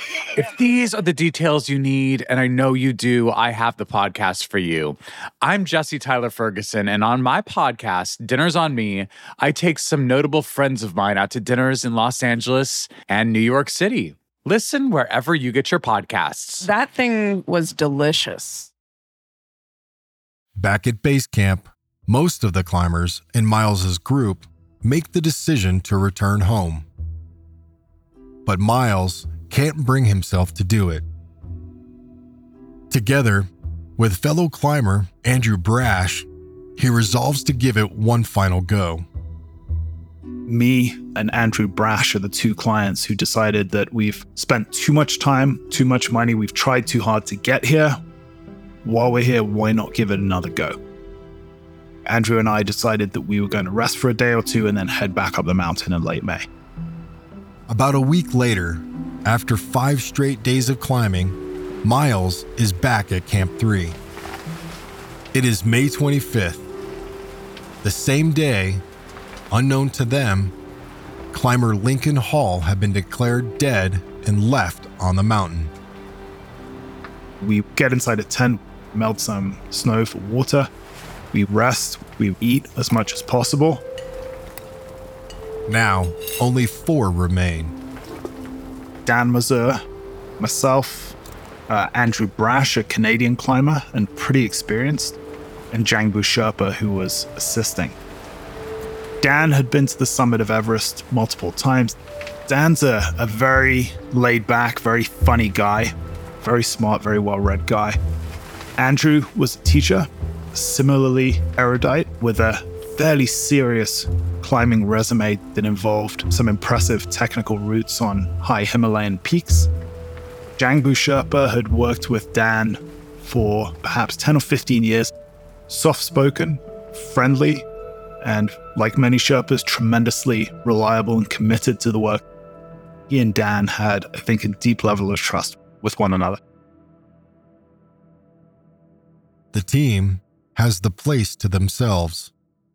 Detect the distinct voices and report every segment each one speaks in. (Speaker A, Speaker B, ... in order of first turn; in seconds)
Speaker A: 0.3-16.7
Speaker B: 16.6-18.7
Speaker C: 20.6-26.9, 28.4-31.0, 32.9-39.0, 57.7-64.0, 65.3-66.7, 67.8-68.8, 69.5-70.5, 71.3-75.7, 85.7-87.8, 139.5-142.3
Speaker D: 40.5-48.0, 48.8-50.8, 52.1-56.5, 77.4-80.7, 81.3-83.8, 89.0-89.8, 90.4-91.2, 91.7-95.2, 95.7-98.0, 99.2-108.0, 108.8-119.7, 120.6-125.1, 125.7-127.7, 128.2-132.2, 133.1-136.4